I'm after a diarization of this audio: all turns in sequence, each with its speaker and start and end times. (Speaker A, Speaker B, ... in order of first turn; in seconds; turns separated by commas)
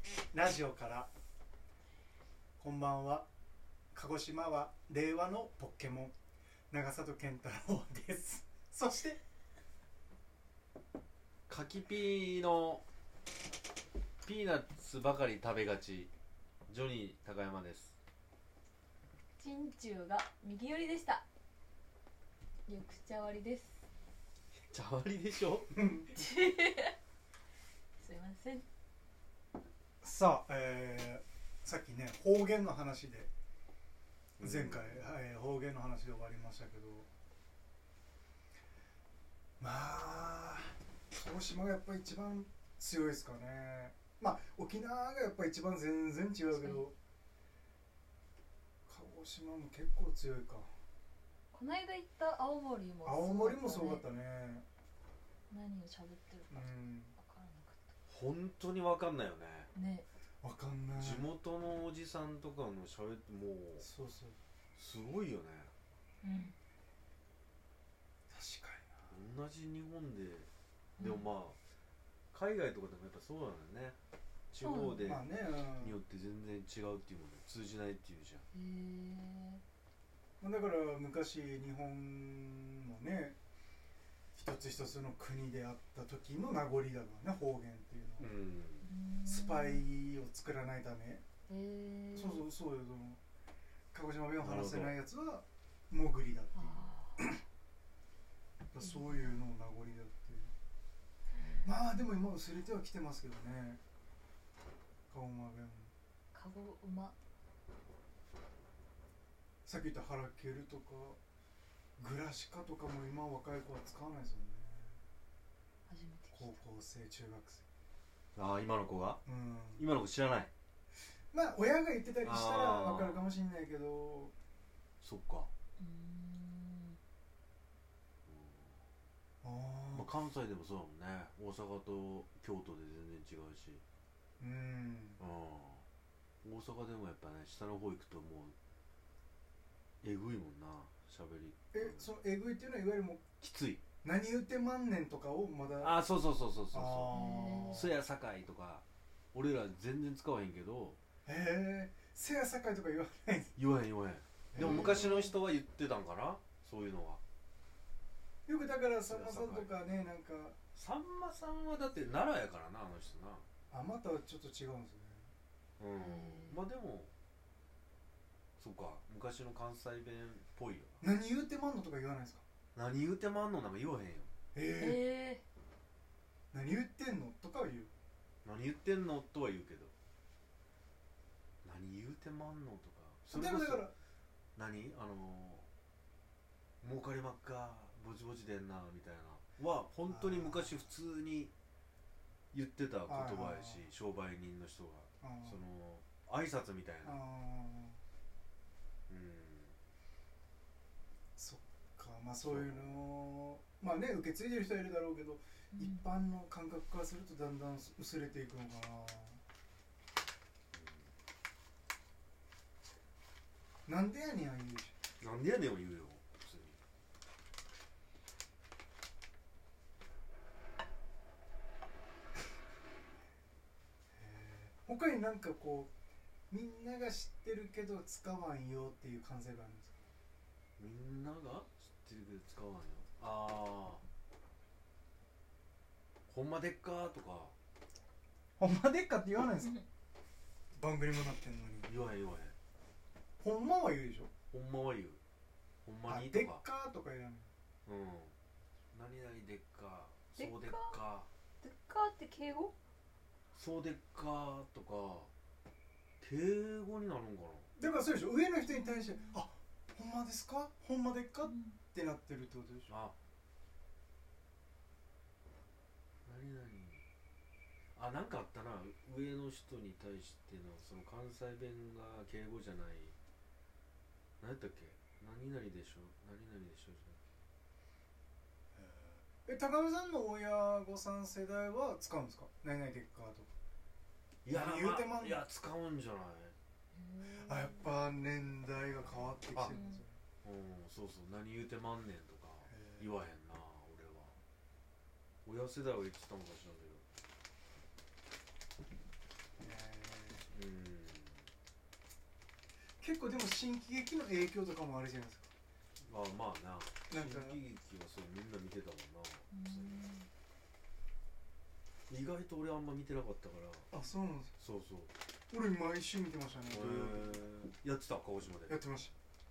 Speaker A: 0.3-1.1, Speaker A: 2.6-3.3, Speaker A: 3.9-6.1, Speaker A: 6.7-9.2, Speaker B: 11.5-12.8, Speaker B: 14.2-16.1, Speaker B: 16.7-17.9, Speaker C: 19.4-21.2, Speaker C: 22.7-23.9, Speaker B: 24.7-25.7, Speaker A: 25.7-26.1, Speaker C: 26.1-26.9, Speaker C: 28.0-28.6, Speaker A: 30.0-33.3, Speaker B: 34.4-35.1, Speaker A: 34.4-37.1, Speaker A: 39.6-47.0, Speaker C: 46.5-46.9, Speaker A: 48.9-50.7, Speaker C: 51.5-54.0, Speaker A: 53.0-54.6, Speaker C: 55.5-57.8, Speaker A: 56.5-57.1, Speaker B: 58.1-59.7, Speaker C: 59.7-60.1, Speaker A: 60.4-61.3, Speaker B: 60.9-63.9, Speaker A: 63.8-64.4, Speaker B: 64.8-65.7, Speaker C: 66.2-66.6, Speaker A: 68.3-69.1, Speaker B: 69.1-71.6, Speaker C: 71.0-71.3, Speaker B: 72.3-74.0, Speaker B: 74.5-78.5, Speaker C: 74.6-75.2, Speaker A: 75.0-76.0, Speaker C: 78.5-79.6, Speaker A: 80.4-83.4, Speaker A: 84.3-88.3, Speaker B: 88.2-88.9, Speaker C: 88.8-89.8, Speaker A: 89.3-91.2, Speaker C: 91.5-92.5, Speaker A: 92.1-93.2, Speaker A: 93.9-97.4, Speaker B: 94.4-95.0, Speaker C: 96.6-97.2, Speaker A: 98.7-100.5, Speaker C: 98.8-99.4, Speaker C: 101.4-101.7, Speaker A: 101.6-103.8, Speaker A: 105.1-105.9, Speaker C: 106.3-107.1, Speaker A: 109.7-111.2, Speaker A: 112.0-115.0, Speaker C: 115.9-116.6, Speaker A: 116.3-117.6, Speaker B: 118.4-119.2, Speaker A: 119.3-119.8, Speaker B: 119.8-120.5, Speaker A: 121.3-124.3, Speaker B: 122.2-123.3, Speaker B: 125.0-125.5, Speaker C: 125.8-127.0, Speaker B: 128.3-128.8, Speaker A: 129.4-130.1, Speaker B: 129.9-133.8, Speaker A: 134.4-135.2, Speaker B: 135.2-135.8, Speaker B: 136.4-138.6, Speaker B: 140.0-142.1, Speaker A: 141.7-143.2, Speaker B: 143.4-143.8, Speaker A: 144.0-146.0, Speaker B: 145.8-151.0, Speaker A: 146.7-148.0, Speaker C: 147.1-147.8, Speaker A: 151.3-153.5, Speaker B: 153.6-157.2, Speaker A: 154.5-155.1, Speaker C: 154.6-155.4, Speaker A: 158.5-160.6, Speaker B: 159.1-159.7, Speaker B: 160.8-163.4, Speaker A: 163.7-165.3, Speaker B: 165.8-167.1, Speaker C: 166.0-166.6, Speaker B: 168.6-171.0, Speaker A: 171.0-172.4, Speaker B: 172.8-174.3, Speaker A: 174.5-175.0, Speaker C: 174.8-175.4, Speaker A: 176.5-177.9, Speaker B: 178.4-179.9, Speaker B: 181.6-183.9, Speaker A: 183.3-183.9, Speaker B: 184.6-185.7, Speaker B: 186.8-191.5, Speaker A: 190.1-190.8, Speaker B: 192.5-197.2, Speaker A: 193.1-193.9, Speaker A: 195.2-195.6, Speaker A: 197.0-198.0, Speaker B: 199.1-199.8, Speaker A: 201.4-209.4, Speaker B: 202.4-203.0, Speaker C: 205.7-206.1, Speaker B: 210.7-211.1, Speaker A: 213.9-215.0, Speaker B: 215.2-216.8, Speaker A: 224.2-225.9, Speaker A: 226.5-230.0, Speaker B: 230.8-234.0, Speaker B: 236.3-237.5, Speaker A: 238.6-239.8, Speaker A: 240.8-241.9, Speaker B: 241.9-242.6, Speaker A: 243.4-244.3, Speaker B: 244.5-245.2, Speaker B: 245.8-246.6, Speaker A: 246.1-247.5, Speaker B: 247.9-248.3, Speaker B: 248.9-251.3, Speaker C: 250.4-251.0, Speaker C: 251.6-252.7, Speaker B: 253.5-255.3, Speaker B: 256.2-257.7, Speaker A: 257.8-262.9, Speaker C: 258.7-259.4, Speaker C: 261.4-261.8, Speaker B: 262.9-263.1, Speaker B: 266.3-267.0, Speaker B: 267.9-273.1, Speaker B: 274.4-277.2, Speaker A: 278.8-283.5, Speaker B: 284.4-286.6, Speaker A: 284.5-285.4, Speaker C: 286.9-287.9, Speaker A: 287.3-290.2, Speaker C: 289.7-290.0, Speaker B: 290.4-294.3, Speaker A: 292.7-293.1, Speaker B: 295.4-297.1, Speaker A: 299.6-300.5, Speaker B: 300.5-301.5, Speaker A: 303.0-305.5, Speaker B: 306.0-310.1, Speaker A: 307.1-307.6, Speaker C: 309.5-310.3, Speaker B: 312.1-313.9, Speaker A: 313.9-314.6, Speaker B: 314.6-315.1, Speaker A: 315.5-317.4, Speaker B: 316.7-318.8, Speaker A: 318.7-319.1